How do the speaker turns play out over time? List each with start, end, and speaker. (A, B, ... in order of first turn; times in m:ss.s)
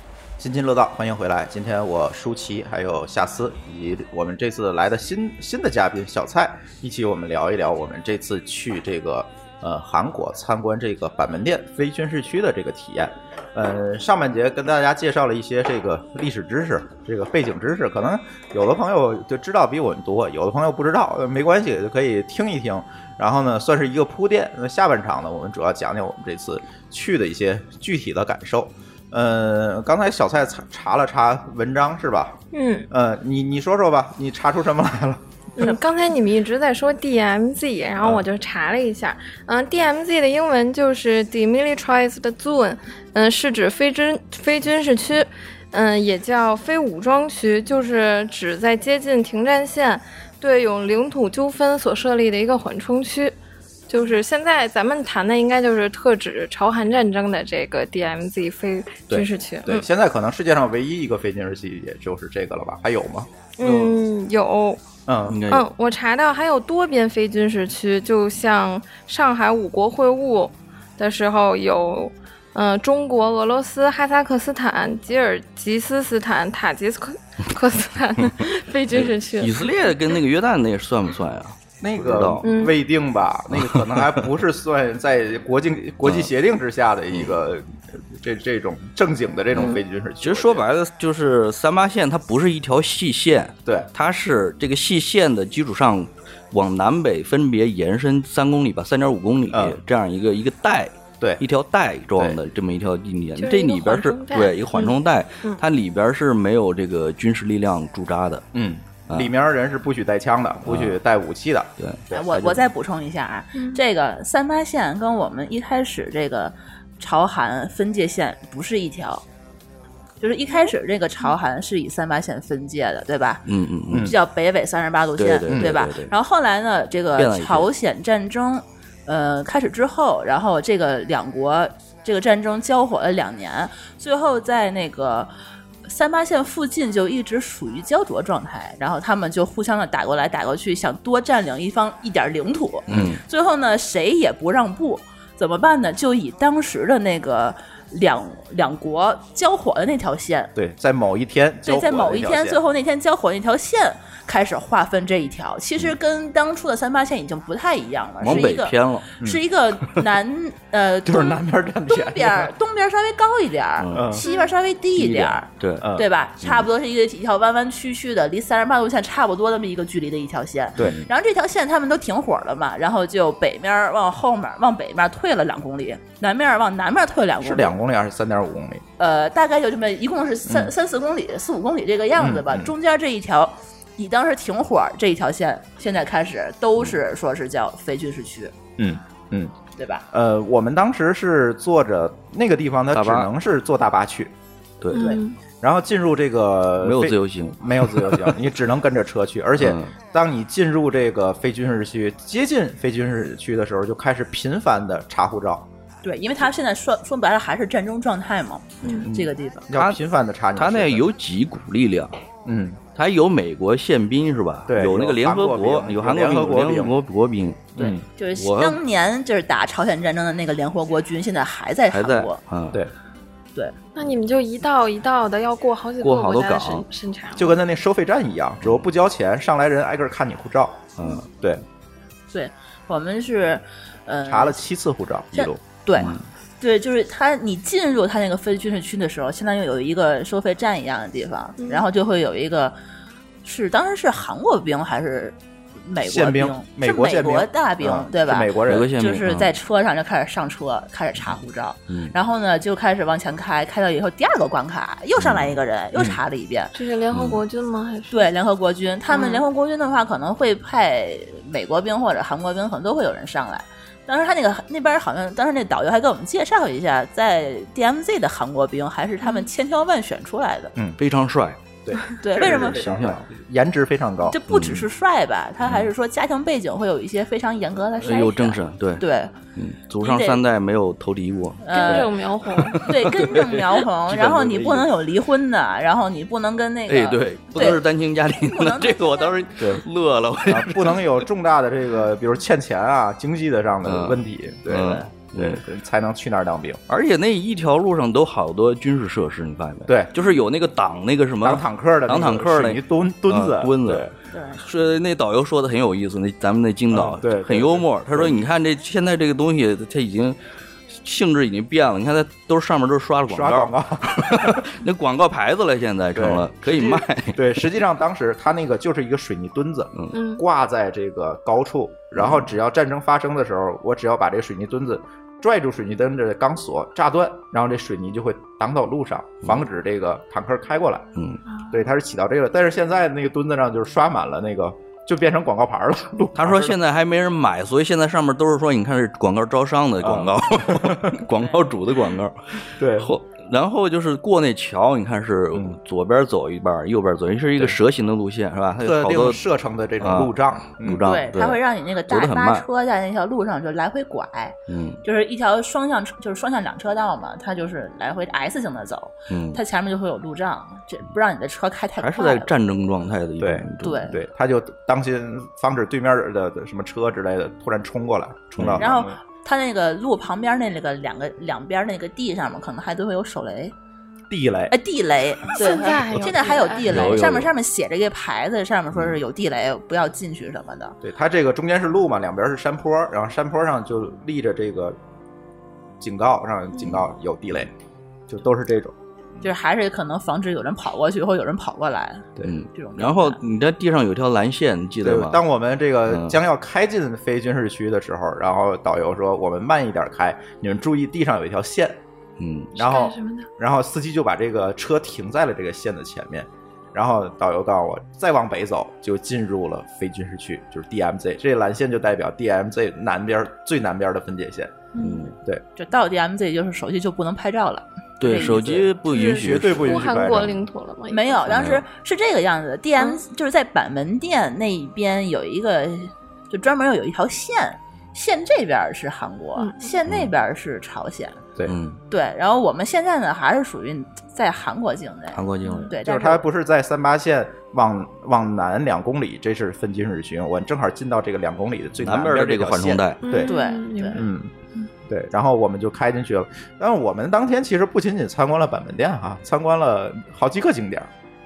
0:00.4-0:32.4 A
0:32.5-0:32.9 B
0:32.9-0:35.7 A
0:35.6-0:53.4 B
0:53.9-0:59.8 B
0:59.1-1:03.3 A
1:03.6-1:04.8 B
1:03.6-1:04.0 C
1:05.1-1:05.4 A
1:05.3-1:05.7 C
1:05.5-1:19.6 B
1:18.9-1:22.5 C
1:21.8-1:30.6 A
1:22.4-1:22.7 B
1:23.5-1:24.2 C
1:26.0-1:26.3 C
1:27.1-1:27.4 C
1:29.5-1:48.4 C
1:39.5-1:39.8 A
1:43.4-1:45.6 B
1:48.5-1:52.6 A
1:50.7-1:51.0 C
1:52.1-1:59.2 D
1:53.6-1:53.8 B
2:00.2-2:03.4 D
2:03.5-2:04.2 C
2:03.9-2:04.2 A
2:04.0-2:15.3 D
2:05.2-2:06.1 C
2:05.5-2:05.8 A
2:07.2-2:07.7 C
2:15.8-2:30.5 D
2:22.9-2:23.2 C
2:22.9-2:23.2 A
2:30.6-2:32.6 A
2:31.6-2:57.8 D
2:38.2-2:39.1 C
2:41.0-2:42.5 A
2:43.8-2:44.1 C
2:43.9-2:44.3 A
2:44.3-2:44.5 B
2:45.0-2:45.9 C
2:45.8-2:46.1 A
2:50.8-2:51.0 A
2:57.4-2:58.8 A
2:59.0-3:08.5 D
3:02.2-3:02.7 A
3:08.8-3:09.5 A
3:09.8-3:10.0 D
3:10.1-3:14.3 A
3:12.9-3:13.3 C
3:14.8-3:15.1 C
3:14.9-3:15.4 B
3:15.0-3:15.2 D
3:15.6-3:25.7 A
3:16.8-3:18.4 C
3:19.6-3:19.9 C
3:26.0-3:29.7 D
3:28.9-3:30.0 C
3:29.7-3:31.1 A
3:30.6-3:32.1 C
3:32.5-3:32.8 A
3:33.0-3:37.8 C
3:34.7-3:37.0 A
3:37.8-3:38.0 A
3:37.8-3:42.4 D
3:38.4-3:38.8 C
3:41.9-3:42.8 C
3:44.0-3:47.6 B
3:46.0-3:46.8 C
3:47.4-3:51.6 A
3:51.0-3:51.3 C
3:52.3-3:54.6 D
3:54.3-3:55.6 A
3:55.3-4:02.8 D
3:56.0-3:56.2 C
4:03.4-4:16.7 D
4:06.0-4:08.9 A
4:08.7-4:09.5 C
4:15.2-4:15.6 C
4:16.7-4:18.3 B
4:17.1-4:17.4 C
4:18.1-4:30.7 D
4:19.1-4:19.4 B
4:29.2-4:29.5 B
4:31.0-4:31.6 C
4:31.8-4:34.4 A
4:32.2-4:32.8 D
4:32.4-4:33.2 C
4:34.3-4:39.3 D
4:34.5-4:34.9 C
4:38.0-4:39.0 C
4:39.6-4:43.6 C
4:40.0-4:40.4 D
4:41.6-4:42.1 D
4:41.7-4:42.8 B
4:42.8-4:49.4 D
4:44.1-4:44.9 A
4:46.9-4:51.2 C
4:49.6-4:49.8 A
4:50.5-4:56.8 A
4:53.8-4:55.6 C
4:56.9-5:04.1 C
5:01.4-5:04.1 A
5:04.3-5:04.6 D
5:04.6-5:10.4 C
5:06.9-5:08.4 A
5:10.9-5:17.4 C
5:13.3-5:14.7 A
5:16.1-5:31.1 A
5:20.1-5:20.4 B
5:22.2-5:22.5 C
5:31.7-5:36.8 A
5:36.4-5:49.4 C
5:40.0-5:41.2 A
5:42.8-5:43.1 A
5:48.8-5:51.0 A
5:50.0-5:52.7 C
5:51.0-6:02.5 D
5:54.7-5:55.0 C
5:59.3-5:59.6 C
6:02.0-6:04.1 C
6:03.4-6:09.2 A
6:03.8-6:04.1 D
6:08.6-6:08.8 C
6:08.8-6:13.7 D
6:14.3-6:14.7 A
6:14.7-6:21.0 D
6:15.5-6:17.2 B
6:16.8-6:17.5 C
6:21.0-6:25.0 A
6:26.0-6:27.7 A
6:28.3-6:29.5 A
6:29.4-6:33.4 D
6:32.4-6:35.4 C
6:35.0-6:42.0 A
6:36.1-6:36.4 C
6:42.4-6:42.7 C
6:42.8-6:54.8 A
6:42.8-6:43.5 B
6:55.0-6:55.3 B
6:55.0-6:55.3 C
6:55.8-6:58.9 D
6:58.2-7:00.5 C
6:59.1-7:01.5 B
6:59.2-7:00.6 A
7:01.1-7:11.4 D
7:01.5-7:01.8 C
7:09.6-7:09.9 B
7:11.7-7:12.0 C
7:12.1-7:16.5 D
7:15.3-7:15.9 C
7:15.6-7:15.9 B
7:16.0-7:23.5 A
7:22.0-7:23.2 C
7:23.2-7:24.3 B
7:23.4-7:24.2 D
7:24.1-7:24.5 A
7:25.1-7:31.1 A